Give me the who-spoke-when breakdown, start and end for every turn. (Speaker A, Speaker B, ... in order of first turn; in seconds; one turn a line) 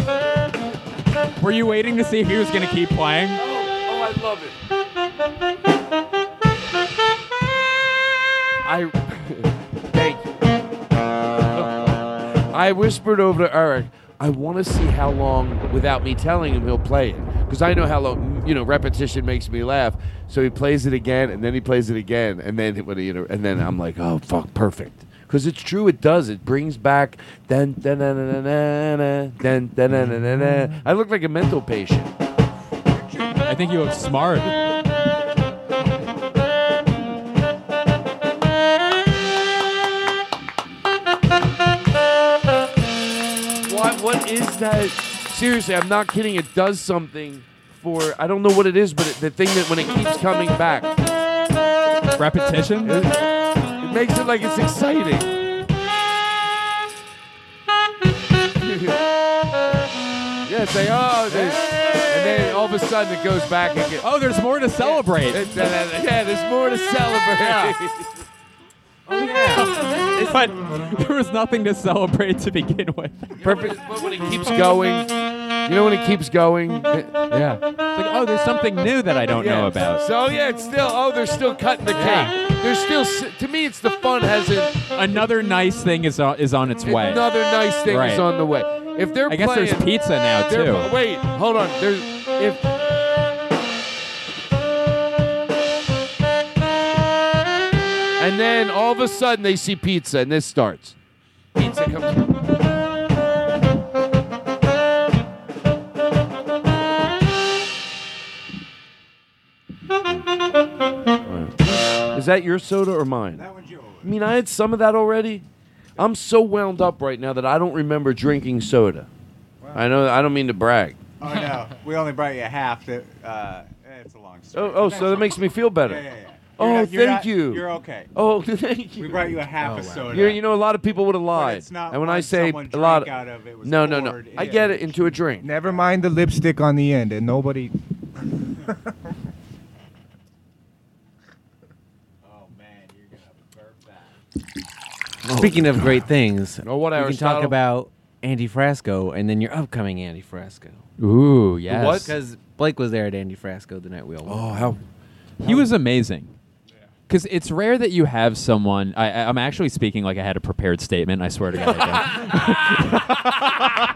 Speaker A: 1.4-3.4
Speaker B: 3.4-4.5
Speaker B: 8.6-10.3
Speaker B: 11.5-32.1
Speaker A: 33.4-34.5
Speaker B: 43.6-50.9
Speaker A: 52.1-53.0
Speaker B: 52.8-53.2
Speaker B: 53.8-55.3
Speaker B: 58.6-59.0
Speaker B: 60.4-64.0
Speaker A: 61.3-61.5
Speaker A: 64.0-65.7
Speaker B: 64.8-68.1
Speaker A: 67.4-67.7
Speaker C: 69.1-69.7
Speaker A: 69.2-73.7
Speaker B: 73.4-75.1
Speaker B: 75.7-77.2
Speaker A: 77.3-80.0
Speaker B: 79.3-84.9
Speaker A: 81.9-82.3
Speaker A: 84.9-87.3
Speaker B: 86.8-92.7
Speaker A: 87.8-88.2
Speaker A: 89.3-90.9
Speaker B: 98.2-101.0
Speaker B: 101.5-102.4
Speaker B: 111.2-113.5
Speaker D: 113.3-114.1
Speaker B: 114.0-115.4
Speaker B: 116.0-119.1
Speaker D: 119.6-119.9
Speaker B: 119.7-121.0
Speaker D: 121.2-128.1
Speaker B: 124.5-126.0
Speaker B: 126.6-129.4
Speaker D: 129.0-130.4
Speaker C: 129.6-130.1
Speaker B: 130.0-135.5
Speaker D: 131.3-135.7
Speaker E: 135.4-137.7
Speaker D: 142.2-144.1
Speaker C: 145.2-150.8
Speaker B: 145.4-145.9
Speaker B: 146.6-147.6
Speaker A: 151.0-152.1
Speaker B: 151.7-152.1
Speaker C: 152.0-154.7
Speaker B: 154.2-154.8
Speaker A: 155.4-156.3
Speaker C: 155.4-155.7
Speaker A: 157.1-163.4
Speaker B: 161.6-163.2